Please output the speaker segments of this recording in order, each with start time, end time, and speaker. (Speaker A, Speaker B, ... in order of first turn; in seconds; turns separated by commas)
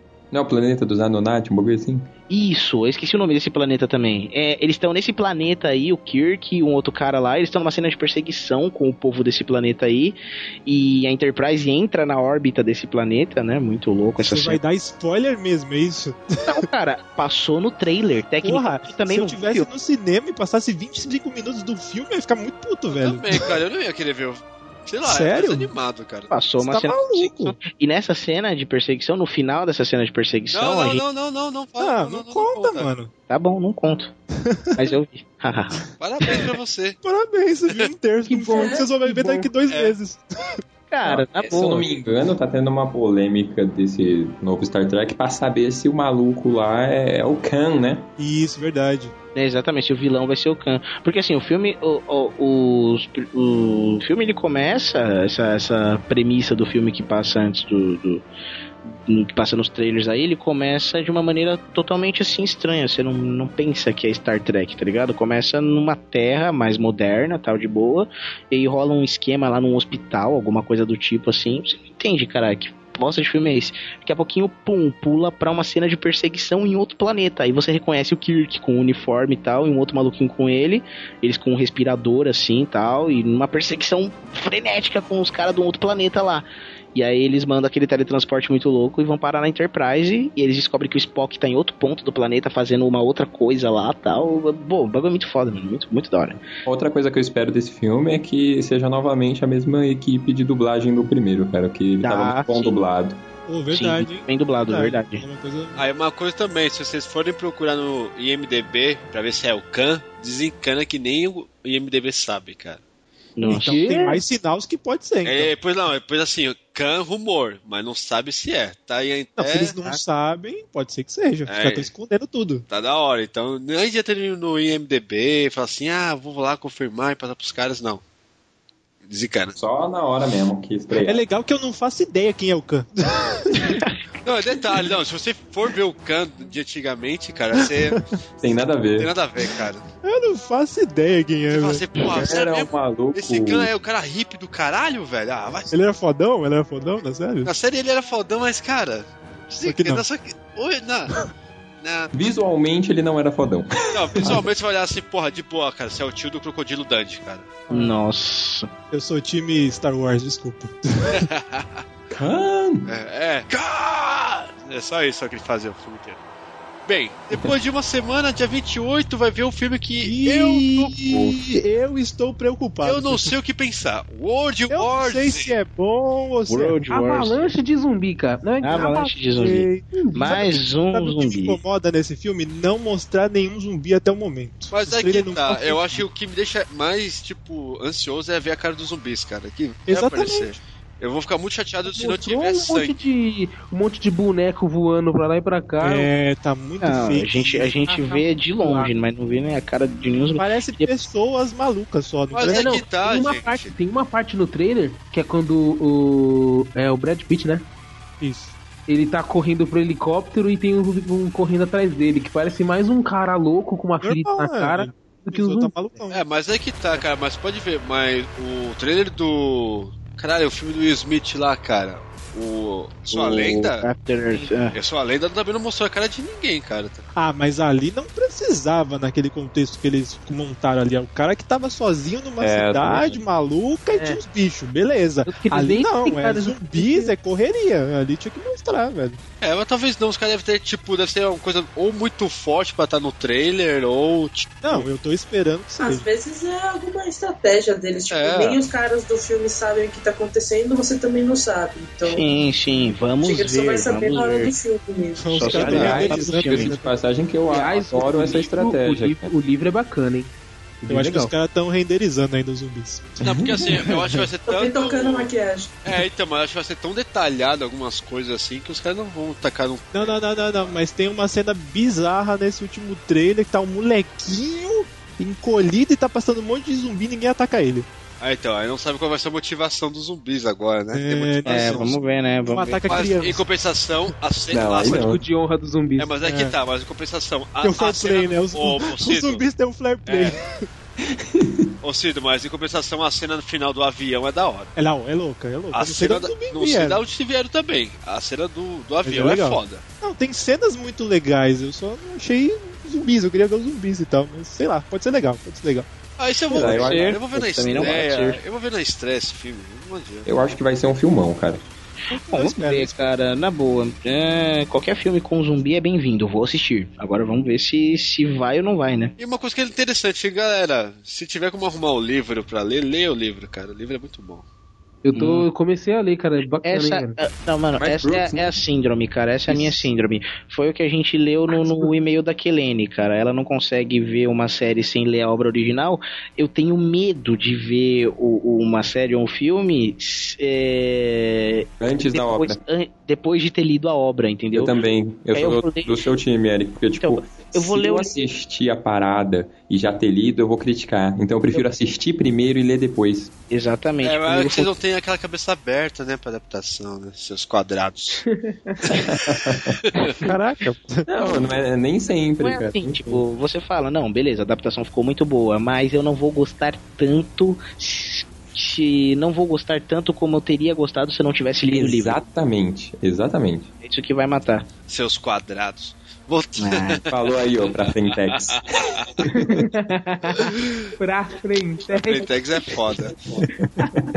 Speaker A: 0.3-2.1, Speaker B: 2.3-14.6, Speaker C: 14.2-16.6, Speaker B: 16.5-19.7, Speaker C: 18.4-23.6, Speaker D: 22.9-26.3, Speaker C: 25.0-25.7, Speaker B: 26.3-31.0, Speaker C: 26.6-27.6, Speaker D: 30.5-32.9, Speaker C: 31.8-33.1, Speaker B: 33.3-34.1, Speaker C: 34.5-35.0, Speaker B: 34.8-35.8, Speaker D: 36.0-37.0, Speaker C: 37.0-40.6, Speaker E: 38.3-39.5, Speaker F: 38.6-38.8, Speaker D: 39.7-40.0, Speaker B: 40.9-41.9, Speaker A: 41.0-48.1, Speaker C: 48.2-49.1, Speaker B: 49.4-58.2, Speaker B: 59.1-96.4, Speaker A: 96.7-103.2, Speaker B: 102.0-102.7, Speaker C: 103.5-105.8, Speaker B: 103.7-105.2, Speaker D: 105.8-112.8, Speaker B: 113.4-113.8, Speaker C: 113.4-115.5, Speaker E: 113.5-114.2, Speaker D: 115.2-119.8, Speaker C: 119.4-122.7, Speaker D: 121.5-121.9, Speaker D: 122.7-128.0, Speaker D: 129.1-129.6, Speaker A: 129.6-131.2, Speaker C: 131.0-133.7, Speaker D: 134.2-138.0, Speaker A: 138.4-139.1, Speaker D: 139.0-139.8, Speaker C: 140.0-141.9, Speaker D: 141.5-145.7, Speaker A: 142.1-143.7, Speaker C: 145.7-147.5, Speaker D: 147.4-151.2, Speaker C: 149.6-150.0, Speaker D: 151.8-152.1, Speaker A: 152.1-154.4, Speaker D: 153.9-157.5, Speaker C: 157.7-158.0, Speaker B: 157.7-158.7, Speaker C: 158.9-161.2, Speaker D: 161.1-161.8, Speaker A: 162.1-162.9, Speaker D: 162.9-166.2, Speaker D: 166.9-170.9, Speaker C: 170.0-173.3, Speaker D: 172.8-175.6, Speaker C: 174.7-176.8, Speaker B: 176.5-177.4, Speaker E: 176.9-179.2, Speaker B: 178.6-181.6, Speaker C: 178.8-186.1, Speaker E: 180.0-180.5, Speaker D: 184.7-192.9, Speaker C: 189.9-190.6, Speaker E: 191.9-196.1, Speaker C: 195.8-198.8, Speaker B: 196.8-201.0, Speaker C: 200.4-202.8, Speaker D: 202.3-203.7, Speaker E: 202.4-207.7, Speaker C: 208.2-208.6, Speaker E: 208.9-215.8, Speaker C: 214.0-216.2, Speaker D: 216.1-223.8, Speaker B: 223.1-224.8, Speaker D: 224.7-227.1, Speaker C: 227.2-239.2, Speaker A: 232.4-233.2, Speaker E: 233.9-234.2, Speaker E: 235.2-237.1, Speaker D: 239.4-244.9, Speaker C: 244.6-246.1, Speaker F: 245.8-252.3, Speaker D: 248.1-248.6, Speaker B: 252.1-254.5, Speaker F: 253.2-256.0, Speaker C: 255.2-256.9, Speaker B: 255.4-256.7, Speaker A: 255.5-259.3, Speaker E: 257.5-260.3, Speaker E: 260.8-261.3, Speaker C: 260.9-263.3, Speaker D: 263.2-265.3, Speaker A: 263.2-263.8, Speaker F: 264.5-265.8, Speaker D: 265.8-270.8, Speaker C: 269.9-277.9, Speaker D: 278.2-282.0, Speaker C: 280.9-283.5, Speaker B: 281.5-282.8, Speaker D: 282.9-285.1, Speaker A: 284.5-285.2, Speaker E: 284.9-286.2, Speaker D: 286.0-289.4, Speaker C: 286.2-286.6, Speaker C: 287.6-290.7, Speaker D: 290.1-290.4, Speaker A: 291.0-291.7, Speaker D: 291.8-294.7, Speaker C: 294.8-297.0, Speaker D: 295.7-299.8, Speaker C: 299.1-305.9, Speaker D: 306.2-310.3, Speaker C: 306.5-306.8, Speaker A: 306.5-307.2, Speaker B: 306.6-308.4, Speaker A: 310.3-311.6, Speaker B: 312.1-319.1, Speaker C: 312.1-313.1, Speaker D: 319.2-324.4, Speaker E: 325.1-327.2, Speaker B: 325.2-325.5, Speaker B: 326.6-344.8, Speaker A: 327.8-328.5, Speaker E: 331.5-331.9, Speaker A: 341.8-342.6, Speaker A: 344.5-353.3, Speaker B: 345.3-346.0, Speaker B: 347.0-348.2, Speaker B: 353.5-354.7, Speaker D: 354.0-358.2, Speaker E: 358.3-358.8, Speaker A: 358.9-359.8, Speaker C: 360.2-361.1, Speaker A: 361.1-363.2, Speaker B: 362.4-372.2, Speaker A: 371.7-373.7, Speaker B: 373.8-374.7, Speaker D: 374.9-377.1, Speaker B: 376.6-377.0, Speaker A: 377.1-378.8, Speaker D: 378.1-379.1, Speaker E: 379.3-382.3, Speaker D: 381.9-383.2, Speaker A: 383.4-384.1